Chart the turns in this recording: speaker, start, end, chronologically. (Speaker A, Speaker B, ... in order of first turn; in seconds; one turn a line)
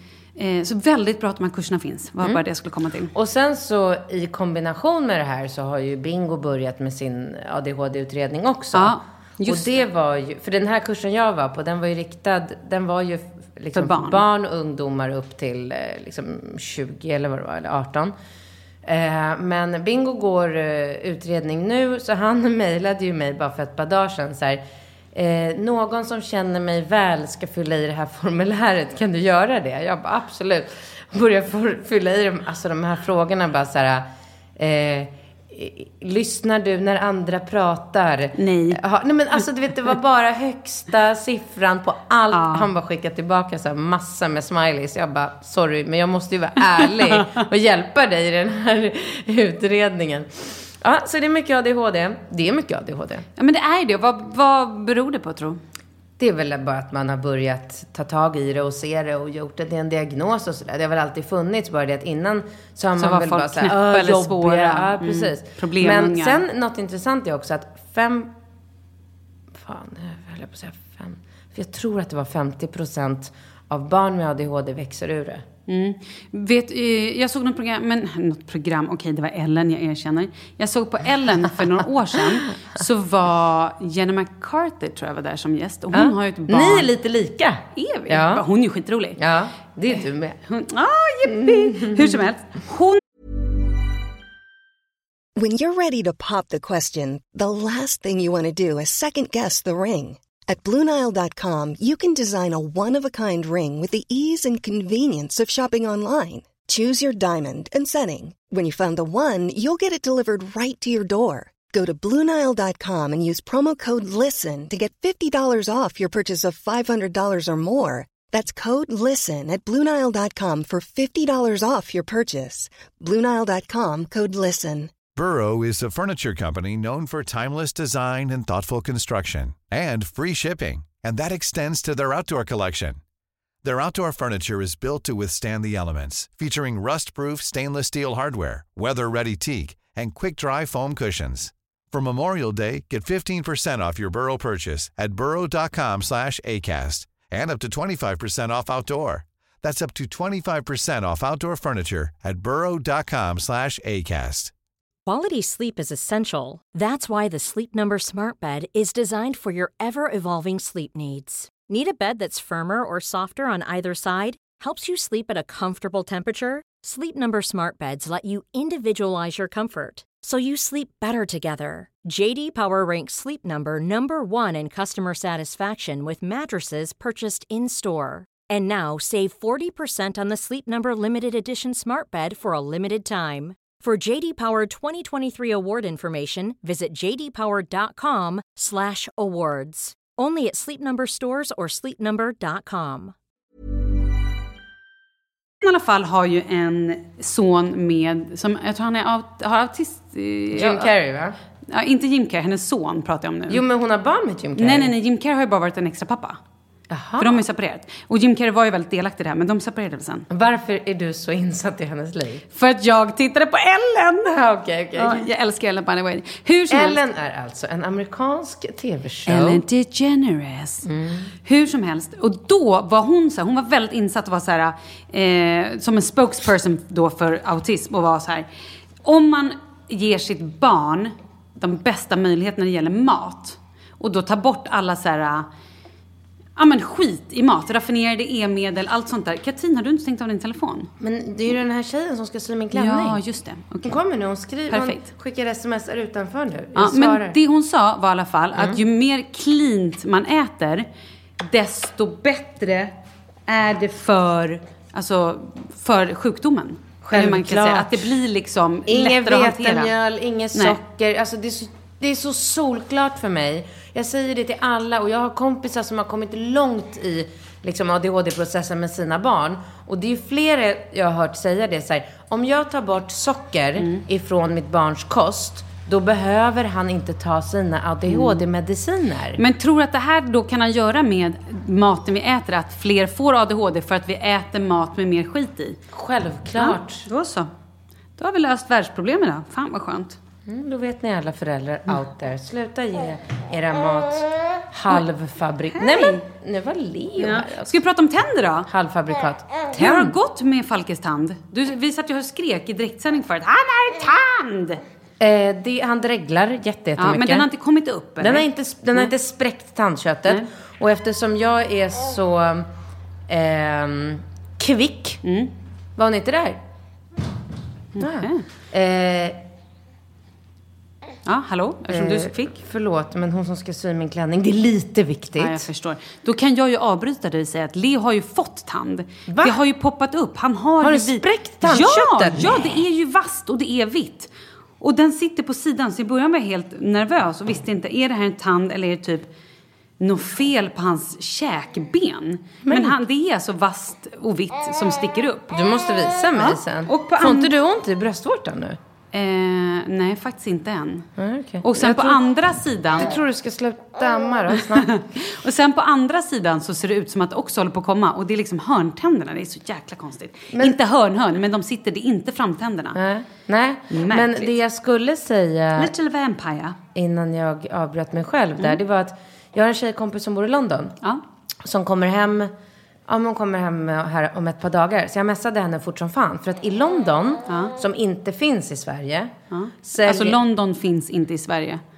Speaker A: 0.4-3.1
Speaker B: 3.1-18.1
Speaker A: 8.7-9.8
Speaker A: 13.7-14.2
Speaker B: 18.9-24.6
Speaker B: 25.1-34.1
Speaker B: 34.6-53.3
Speaker A: 38.4-38.8
Speaker A: 42.3-42.7
Speaker A: 53.4-55.6
Speaker B: 56.2-68.3
Speaker A: 63.0-66.4
Speaker B: 69.6-75.5
Speaker A: 75.7-86.9
Speaker B: 85.9-88.4
Speaker A: 87.8-89.2
Speaker B: 89.2-90.4
Speaker A: 90.5-93.0
Speaker B: 91.3-92.2
Speaker C: 95.4-124.9
Speaker D: 125.2-133.0
Speaker D: 133.6-154.5
Speaker E: 155.1-193.1
Speaker A: 195.6-200.9
Speaker B: 200.5-201.4
Speaker A: 201.7-203.6
Speaker B: 203.5-204.9
Speaker A: 204.6-206.4
Speaker B: 206.9-207.4
Speaker A: 207.2-210.3
Speaker B: 210.3-212.4
Speaker A: 212.6-214.3
Speaker B: 214.3-215.3
Speaker A: 214.9-217.0
Speaker B: 216.7-219.6
Speaker A: 219.3-220.9
Speaker B: 220.9-221.3
Speaker A: 221.4-228.5
Speaker A: 229.0-235.5
Speaker A: 236.6-240.9
Speaker B: 241.0-243.2
Speaker A: 242.7-244.0
Speaker B: 243.8-247.4
Speaker A: 244.7-245.1
Speaker A: 246.8-250.9
Speaker A: 251.4-252.9
Speaker A: 253.5-259.9
Speaker B: 257.1-258.1
Speaker B: 258.9-279.4
Speaker A: 278.1-278.4
Speaker A: 279.4-285.8
Speaker B: 285.9-287.1
Speaker A: 286.6-287.5
Speaker A: 288.2-290.2
Speaker B: 290.5-297.7
Speaker A: 295.8-296.2
Speaker A: 297.2-298.7
Speaker B: 298.7-300.1
Speaker A: 299.8-304.8
Speaker B: 305.2-307.5
Speaker A: 307.0-309.1
Speaker B: 308.2-312.7
Speaker B: 313.3-315.2
Speaker A: 315.2-315.5
Speaker B: 316.0-316.6
Speaker A: 318.0-318.4
Speaker B: 318.0-319.4
Speaker A: 321.3-322.5
Speaker B: 321.9-325.7
Speaker A: 325.4-339.3
Speaker B: 329.3-329.6
Speaker B: 330.8-332.5
Speaker A: 340.0-345.5
Speaker B: 342.7-342.9
Speaker B: 345.5-348.8
Speaker A: 346.4-347.5
Speaker A: 349.1-351.1
Speaker B: 351.2-352.2
Speaker A: 351.6-353.1
Speaker B: 352.9-355.0
Speaker A: 354.8-363.0
Speaker B: 362.9-365.9
Speaker A: 363.9-364.5
Speaker A: 365.8-366.8
Speaker B: 366.9-371.0
Speaker B: 371.6-372.5
Speaker B: 373.1-379.3
Speaker A: 379.5-381.8
Speaker B: 379.9-380.4